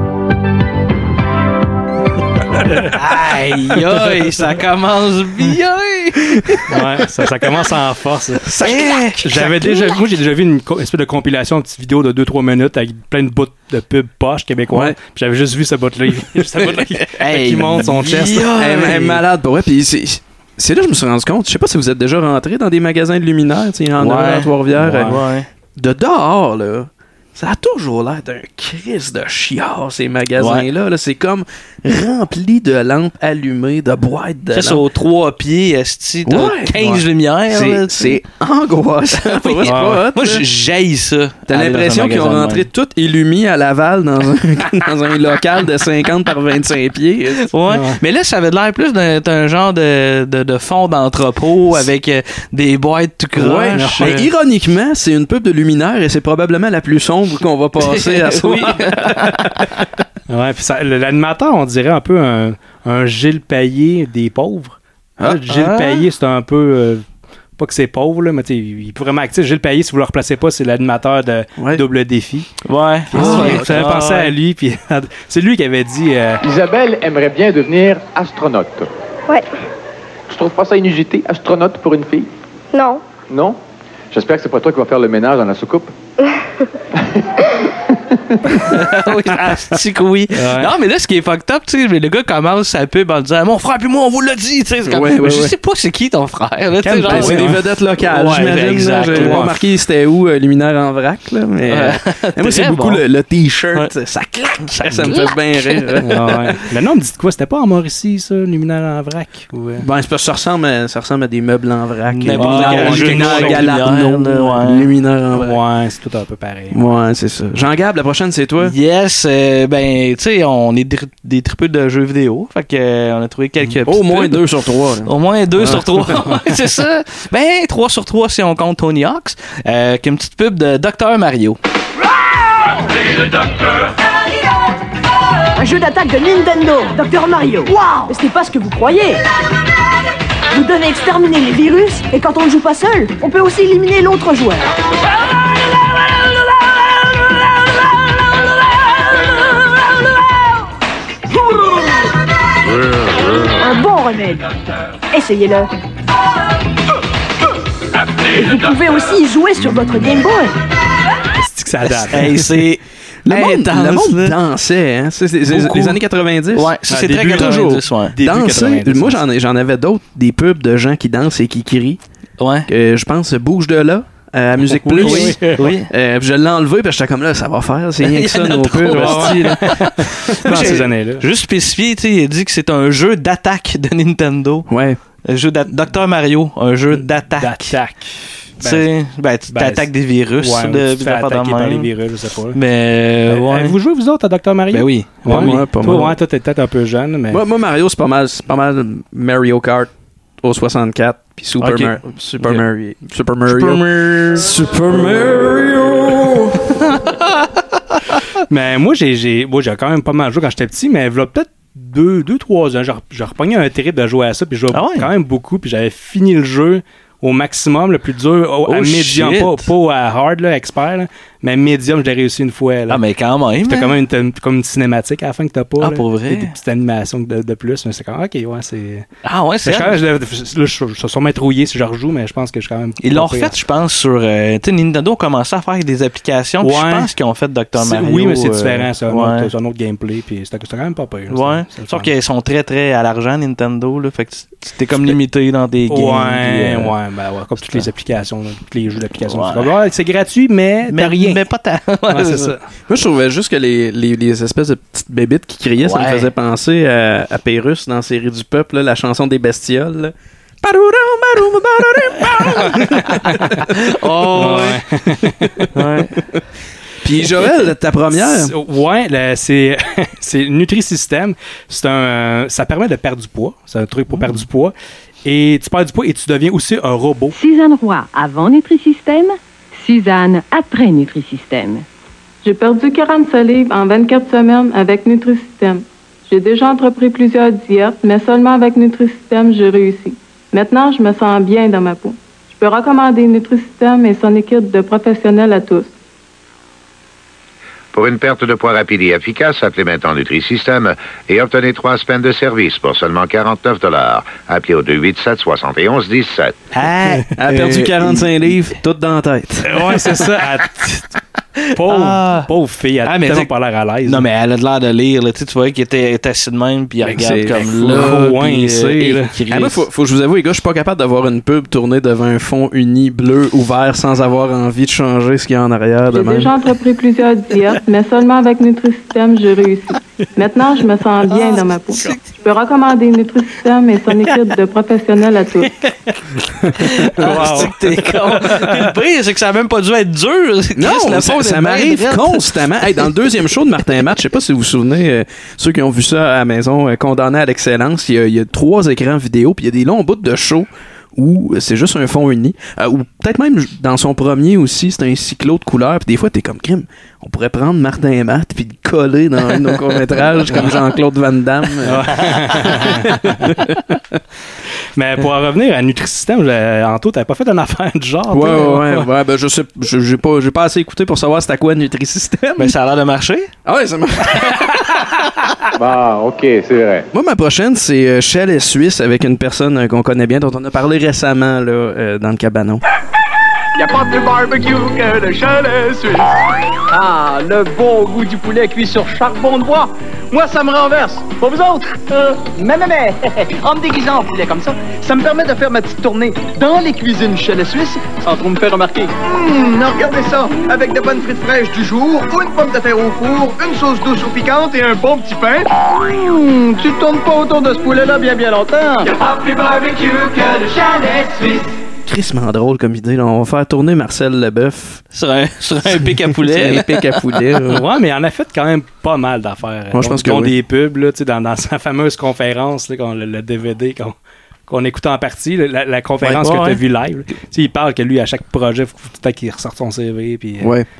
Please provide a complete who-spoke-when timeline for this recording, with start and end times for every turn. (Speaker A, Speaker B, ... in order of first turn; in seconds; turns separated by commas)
Speaker A: 2.6-2.9, Speaker B: 2.9-6.8, Speaker A: 6.7-8.6, Speaker B: 8.6-9.9, Speaker A: 9.2-18.4, Speaker C: 14.7-14.9, Speaker B: 17.2-19.2, Speaker C: 17.7-25.2, Speaker B: 24.0-25.5, Speaker A: 24.8-25.2, Speaker C: 25.8-34.8, Speaker B: 30.4-30.7, Speaker B: 34.5-38.2, Speaker C: 36.2-40.4, Speaker B: 39.1-42.7, Speaker A: 39.6-40.0, Speaker C: 41.5-47.5, Speaker B: 47.5-54.1, Speaker A: 47.7-48.0, Speaker C: 53.4-59.7, Speaker A: 53.7-54.3, Speaker B: 57.8-59.4, Speaker A: 60.3-67.0, Speaker B: 65.5-66.0, Speaker A: 67.6-72.5, Speaker C: 71.6-71.8, Speaker B: 72.7-74.3, Speaker A: 73.1-76.4, Speaker C: 73.1-73.7, Speaker D: 76.4-78.9, Speaker D: 80.3-82.3, Speaker E: 82.7-83.0, Speaker D: 83.3-83.6, Speaker D: 84.1-85.9, Speaker B: 88.6-99.5, Speaker A: 90.3-90.7, Speaker C: 94.8-95.5, Speaker A: 96.8-97.6, Speaker C: 97.0-106.5, Speaker A: 99.1-99.6, Speaker B: 101.7-103.0, Speaker B: 104.6-105.9, Speaker A: 106.0-109.8, Speaker C: 109.8-115.6, Speaker B: 112.1-114.9, Speaker A: 112.3-113.7, Speaker A: 115.3-116.8, Speaker C: 116.7-118.7, Speaker B: 118.6-124.4, Speaker C: 123.9-126.2, Speaker B: 125.0-131.6, Speaker E: 135.6-139.2, Speaker E: 140.5-144.6, Speaker E: 153.6-154.4, Speaker E: 155.1-155.7, Speaker E: 158.3-160.5, Speaker A: 161.3-162.5, Speaker B: 162.1-164.4, Speaker C: 163.2-166.7, Speaker B: 165.5-166.0, Speaker B: 166.5-168.1, Speaker A: 166.9-169.2, Speaker C: 168.2-172.0, Speaker B: 172.4-172.7, Speaker C: 172.7-179.7, Speaker A: 174.7-175.7, Speaker B: 174.9-175.9, Speaker B: 178.1-179.7, Speaker A: 178.9-179.9, Speaker A: 180.4-181.2, Speaker B: 180.4-184.7, Speaker C: 184.7-185.0, Speaker B: 185.2-187.8, Speaker A: 186.9-188.9, Speaker B: 188.6-191.9, Speaker A: 189.5-192.6, Speaker B: 192.5-193.8, Speaker A: 193.3-197.4, Speaker B: 194.7-195.7, Speaker C: 195.2-196.1, Speaker C: 197.3-206.5, Speaker B: 201.6-202.6, Speaker A: 208.5-223.0, Speaker B: 214.7-215.1, Speaker B: 218.7-219.7, Speaker B: 222.9-224.0, Speaker A: 223.6-229.1, Speaker B: 225.8-226.5, Speaker B: 229.2-230.0, Speaker A: 229.6-233.5, Speaker B: 233.0-239.5, Speaker A: 236.6-237.1, Speaker A: 237.8-242.1, Speaker B: 241.3-246.9, Speaker A: 245.9-251.4, Speaker B: 249.2-249.7, Speaker B: 250.9-252.5, Speaker A: 252.1-252.6, Speaker C: 252.9-263.4, Speaker B: 255.8-256.3, Speaker B: 263.8-264.8, Speaker A: 264.4-265.5, Speaker B: 265.8-266.1, Speaker C: 267.0-268.5, Speaker A: 268.1-274.7, Speaker A: 275.2-277.3, Speaker F: 277.3-281.8, Speaker G: 282.4-295.9, Speaker H: 297.9-306.5, Speaker B: 306.7-307.8, Speaker C: 307.3-309.7, Speaker A: 309.6-311.1, Speaker A: 311.7-314.2, Speaker B: 311.8-312.5, Speaker B: 313.0-313.5, Speaker B: 314.0-319.9, Speaker C: 317.1-318.1, Speaker A: 317.1-319.3, Speaker C: 319.5-326.6, Speaker G: 326.1-335.7, Speaker B: 331.3-332.2, Speaker A: 336.6-338.9, Speaker B: 336.8-342.5, Speaker C: 340.8-362.2, Speaker A: 361.9-363.5, Speaker A: 364.9-369.1, Speaker C: 368.3-372.7, Speaker B: 372.6-373.5, Speaker C: 373.6-374.7, Speaker D: 375.8-377.1, Speaker C: 377.1-382.8, Speaker I: 383.8-386.4, Speaker I: 386.9-409.1, Speaker I: 410.5-411.6, Speaker C: 412.1-415.0, Speaker B: 415.1-417.2, Speaker C: 415.8-417.8, Speaker A: 417.7-424.1, Speaker C: 419.9-420.5, Speaker A: 424.7-430.7, Speaker B: 426.4-426.8, Speaker C: 430.6-430.9